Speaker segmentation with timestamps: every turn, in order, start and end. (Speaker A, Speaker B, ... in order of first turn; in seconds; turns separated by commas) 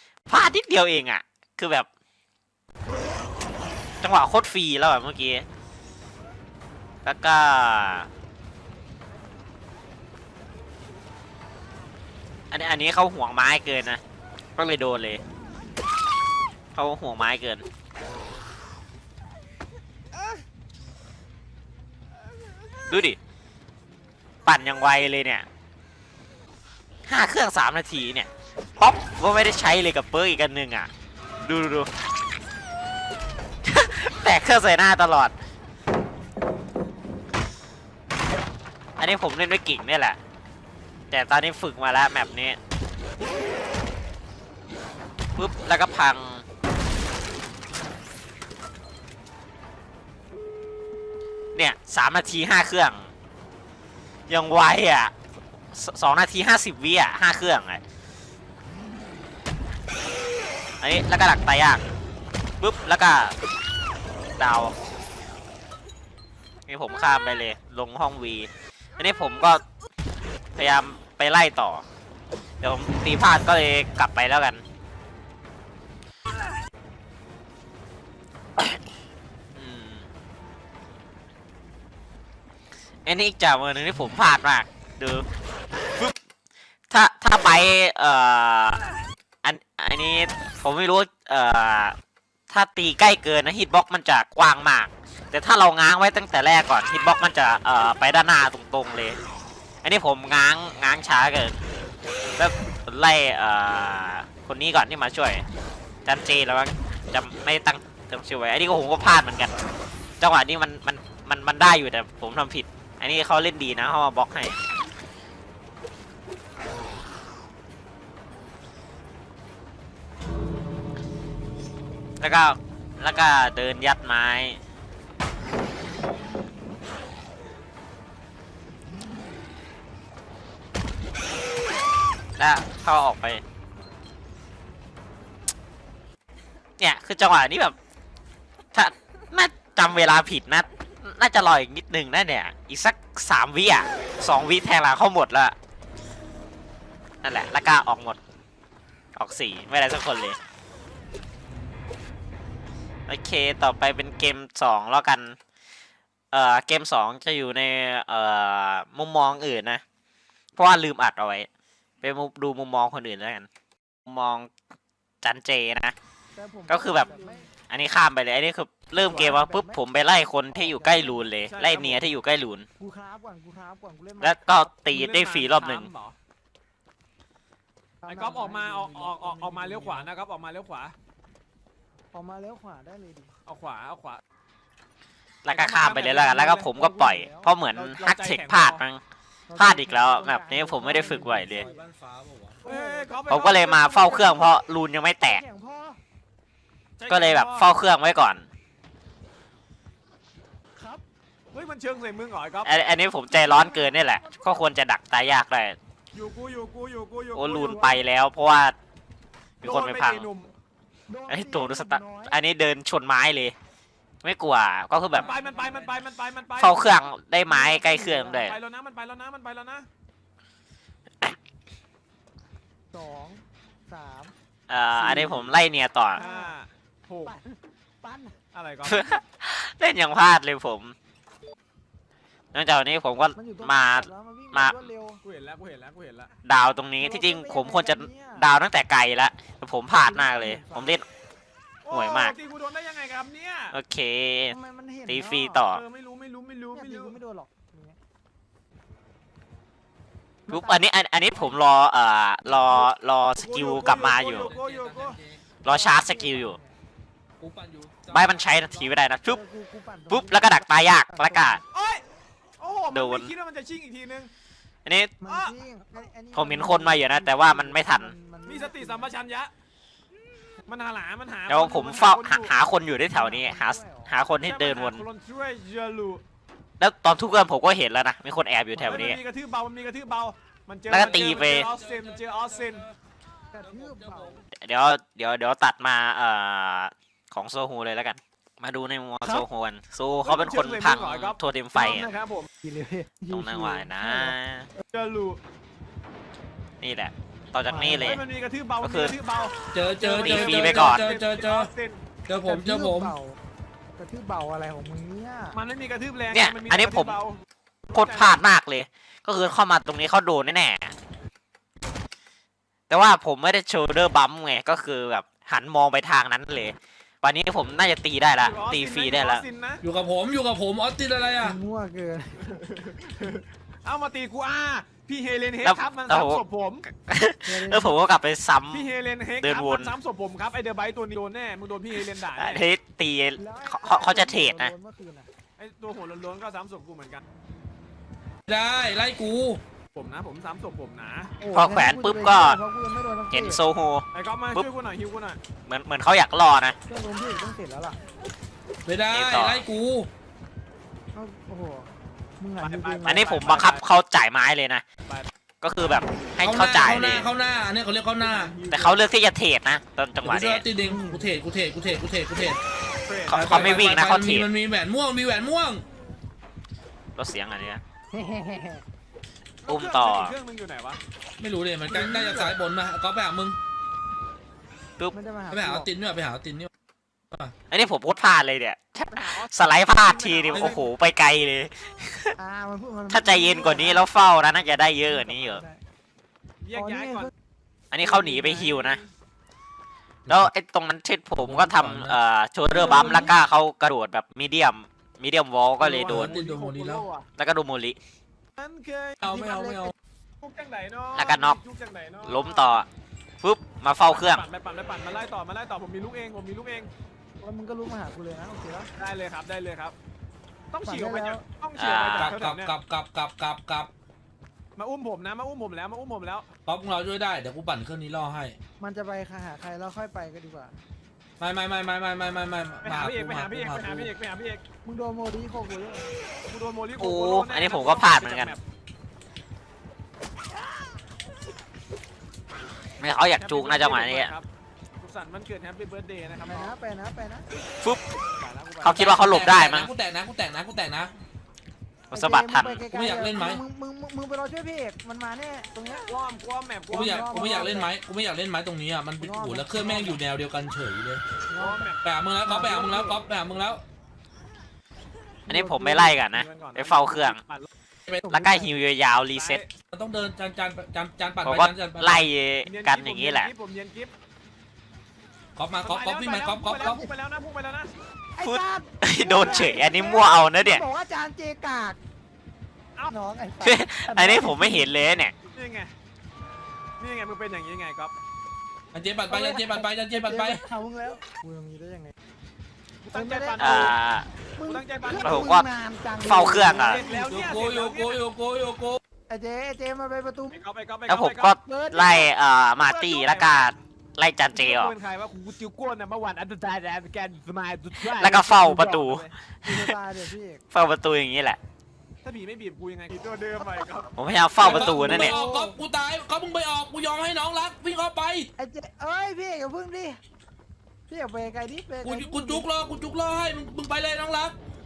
Speaker A: 0.3-1.9, Speaker A: 4.0-5.5, Speaker A: 7.0-8.1, Speaker A: 12.5-14.0, Speaker A: 14.6-15.2, Speaker A: 16.8-17.6, Speaker A: 22.9-23.2, Speaker A: 24.5-25.5, Speaker A: 27.1-30.9, Speaker A: 31.4-31.9, Speaker A: 33.6-35.3, Speaker A: 39.0-40.2, Speaker A: 41.1-42.6, Speaker A: 45.4-46.4, Speaker A: 51.5-53.1, Speaker A: 54.3-55.1, Speaker A: 55.7-57.8, Speaker A: 60.8-61.8, Speaker A: 62.6-63.4, Speaker A: 64.4-64.7, Speaker A: 66.7-69.6, Speaker A: 70.6-71.8, Speaker A: 72.6-74.6, Speaker A: 79.5-80.0, Speaker A: 83.1-85.3, Speaker A: 86.9-88.8, Speaker A: 89.4-92.0, Speaker A: 92.5-99.2, Speaker A: 99.8-101.6, Speaker A: 102.4-105.4, Speaker A: 106.0-109.5, Speaker A: 110.2-114.6, Speaker A: 122.2-124.6, Speaker A: 132.4-133.4, Speaker A: 136.8-137.8, Speaker A: 138.7-145.6, Speaker A: 147.2-148.2, Speaker A: 149.2-150.4, Speaker A: 153.1-155.4, Speaker A: 156.3-159.8, Speaker A: 160.6-161.5, Speaker A: 162.0-163.5, Speaker A: 164.1-164.5, Speaker A: 165.2-165.9, Speaker B: 166.3-167.5, Speaker A: 166.7-167.1, Speaker C: 166.9-167.4, Speaker A: 167.7-172.7, Speaker C: 169.0-169.4, Speaker B: 169.0-169.8, Speaker B: 170.5-171.3, Speaker C: 171.5-172.1, Speaker B: 172.8-174.7, Speaker A: 174.2-175.9, Speaker C: 174.9-176.2, Speaker B: 178.0-180.2, Speaker C: 178.1-180.9, Speaker B: 182.1-183.3, Speaker C: 183.5-184.2, Speaker A: 185.4-189.0, Speaker C: 185.5-186.7, Speaker B: 186.7-187.5, Speaker C: 187.8-188.8, Speaker B: 189.5-191.9, Speaker A: 189.6-191.7, Speaker D: 190.8-192.7, Speaker B: 192.6-193.3, Speaker C: 192.7-194.6, Speaker A: 193.3-195.4, Speaker B: 195.2-196.0, Speaker C: 197.0-197.7, Speaker A: 197.1-198.4, Speaker B: 200.8-201.0, Speaker C: 201.5-202.8, Speaker A: 202.7-205.8, Speaker B: 203.3-204.7, Speaker C: 206.1-207.9, Speaker A: 207.3-208.8, Speaker B: 207.7-208.0, Speaker A: 209.6-210.3, Speaker C: 209.6-210.5, Speaker B: 211.1-212.4, Speaker A: 211.3-213.5, Speaker A: 214.2-215.3, Speaker C: 215.2-216.9, Speaker D: 215.2-216.1, Speaker A: 216.6-218.6, Speaker B: 217.5-218.5, Speaker C: 217.7-219.9, Speaker B: 222.9-224.3, Speaker A: 224.7-226.2, Speaker C: 225.0-225.6, Speaker B: 226.1-226.6, Speaker C: 226.2-227.4, Speaker B: 227.2-228.4, Speaker C: 228.5-229.2, Speaker A: 228.8-230.9, Speaker A: 232.5-234.8, Speaker B: 233.3-235.2, Speaker C: 235.2-236.3, Speaker A: 236.4-241.1, Speaker B: 237.0-238.5, Speaker B: 239.9-241.0, Speaker C: 241.8-243.7, Speaker A: 241.9-242.3, Speaker A: 243.7-244.6, Speaker B: 244.5-245.7, Speaker A: 245.1-245.8, Speaker C: 245.7-247.2, Speaker B: 246.7-248.0, Speaker B: 250.5-250.9, Speaker A: 250.5-254.5, Speaker C: 252.5-252.8, Speaker C: 253.4-255.2, Speaker D: 254.3-255.5, Speaker A: 255.6-256.6, Speaker B: 255.6-256.8, Speaker D: 257.4-258.4, Speaker A: 258.1-259.4, Speaker B: 258.6-261.6, Speaker A: 260.1-261.6, Speaker C: 261.7-262.1, Speaker C: 262.6-264.3, Speaker A: 262.9-263.3, Speaker A: 264.9-265.1, Speaker B: 265.2-269.1, Speaker C: 265.3-265.5, Speaker A: 266.3-268.1, Speaker C: 268.4-269.5, Speaker C: 270.7-272.5, Speaker A: 271.5-275.0, Speaker B: 273.1-274.1, Speaker C: 274.4-276.2, Speaker A: 276.8-279.2, Speaker C: 278.8-282.9, Speaker A: 280.9-281.7, Speaker D: 281.5-282.6, Speaker B: 283.5-284.4, Speaker D: 283.6-284.4, Speaker A: 284.6-292.1, Speaker C: 290.2-292.5, Speaker B: 292.6-294.4, Speaker A: 293.3-294.7, Speaker C: 294.9-295.4, Speaker A: 296.8-298.2, Speaker B: 297.7-298.2, Speaker C: 297.9-302.1, Speaker A: 298.8-299.2, Speaker D: 299.7-301.7, Speaker A: 300.2-301.1, Speaker D: 302.3-303.2, Speaker B: 302.4-303.4, Speaker B: 304.0-305.6, Speaker C: 305.5-308.4, Speaker A: 306.3-307.1, Speaker A: 307.9-310.9, Speaker A: 312.9-319.4, Speaker C: 318.3-319.8, Speaker D: 319.8-321.6, Speaker B: 321.4-322.5, Speaker C: 322.6-326.9, Speaker A: 325.6-329.9, Speaker B: 327.4-328.0, Speaker C: 328.7-332.6, Speaker A: 332.0-334.7, Speaker B: 333.4-335.3, Speaker C: 335.6-337.2, Speaker D: 338.5-339.6, Speaker C: 339.9-341.3, Speaker B: 341.4-343.6, Speaker A: 341.5-342.6, Speaker A: 343.3-344.7, Speaker C: 344.1-345.4, Speaker A: 345.7-346.8, Speaker B: 346.9-348.0, Speaker D: 348.9-350.1, Speaker A: 349.1-349.6, Speaker B: 351.1-353.3, Speaker C: 352.6-354.0, Speaker A: 353.0-354.8, Speaker A: 355.6-357.3, Speaker D: 356.4-358.6, Speaker C: 358.2-359.0, Speaker A: 358.7-360.6, Speaker D: 360.2-362.6, Speaker B: 360.8-361.3, Speaker C: 363.1-363.9, Speaker A: 363.3-364.5, Speaker D: 363.3-365.9, Speaker A: 367.2-367.8, Speaker B: 368.1-368.8, Speaker C: 369.6-371.0, Speaker A: 369.7-370.4, Speaker D: 371.4-373.6, Speaker B: 371.9-372.6, Speaker B: 375.1-375.9, Speaker D: 375.5-376.7, Speaker A: 377.7-382.4, Speaker C: 379.1-380.9, Speaker D: 380.5-380.8, Speaker B: 382.4-385.8, Speaker A: 383.1-385.6, Speaker C: 386.6-387.3, Speaker B: 386.8-387.3, Speaker A: 387.9-389.0, Speaker C: 388.0-389.1, Speaker A: 390.3-396.3, Speaker D: 391.4-392.2, Speaker D: 392.7-393.4, Speaker B: 392.7-393.3, Speaker C: 395.8-397.3, Speaker D: 396.1-397.1, Speaker A: 397.4-398.0, Speaker C: 398.6-399.2, Speaker D: 399.2-399.9, Speaker B: 399.2-399.9, Speaker C: 400.4-402.8, Speaker A: 401.1-401.6, Speaker A: 402.2-402.9, Speaker A: 403.4-404.4, Speaker C: 404.1-406.9, Speaker B: 407.4-408.9, Speaker C: 409.0-409.9, Speaker C: 410.7-412.7, Speaker B: 410.8-411.4, Speaker A: 411.8-412.4, Speaker D: 412.2-413.9, Speaker C: 414.8-416.5, Speaker D: 416.7-418.6, Speaker B: 418.8-420.8, Speaker D: 421.4-424.1, Speaker C: 422.8-424.6, Speaker B: 424.8-426.1, Speaker C: 426.5-428.6, Speaker A: 427.0-428.6, Speaker A: 433.0-434.3, Speaker C: 433.4-434.5, Speaker C: 435.0-436.7, Speaker B: 436.5-437.5, Speaker C: 438.4-439.2, Speaker A: 438.8-439.9, Speaker D: 438.9-441.1, Speaker B: 442.1-446.1, Speaker A: 442.1-442.9, Speaker D: 442.9-443.6, Speaker C: 446.1-447.6, Speaker B: 446.9-447.9, Speaker D: 446.9-451.2, Speaker B: 449.2-450.2, Speaker B: 451.5-451.9, Speaker C: 451.6-452.0, Speaker D: 452.0-453.8, Speaker B: 452.4-453.1, Speaker C: 452.6-453.1, Speaker B: 455.5-456.2, Speaker A: 455.5-457.4, Speaker C: 456.3-457.7, Speaker D: 458.1-458.3, Speaker B: 458.2-458.8, Speaker A: 458.3-459.6, Speaker C: 459.3-459.7, Speaker D: 459.9-462.3, Speaker A: 461.4-463.5, Speaker C: 462.7-464.1, Speaker D: 465.6-467.1, Speaker C: 465.8-467.9, Speaker B: 466.8-467.1, Speaker B: 468.4-472.0, Speaker A: 468.4-470.8, Speaker B: 473.1-474.9, Speaker A: 473.6-475.3, Speaker C: 475.5-475.9, Speaker C: 477.0-478.1, Speaker D: 478.9-480.6, Speaker B: 479.3-482.1, Speaker C: 483.0-484.0, Speaker B: 483.1-483.9, Speaker A: 483.6-484.3, Speaker B: 484.6-487.3, Speaker C: 484.7-485.5, Speaker A: 485.2-485.6, Speaker A: 486.2-487.0, Speaker C: 486.8-488.2, Speaker D: 487.3-489.0, Speaker B: 489.3-490.6, Speaker C: 490.5-491.6, Speaker A: 491.1-494.9, Speaker B: 491.6-492.3, Speaker C: 492.8-493.8, Speaker C: 494.5-499.9, Speaker A: 498.0-499.3, Speaker B: 499.6-500.6, Speaker A: 500.7-501.6, Speaker C: 502.2-504.1, Speaker A: 504.2-505.4, Speaker D: 504.6-508.5, Speaker C: 504.6-505.1, Speaker B: 504.8-505.8, Speaker B: 508.6-510.2, Speaker B: 511.1-512.7, Speaker D: 512.0-514.6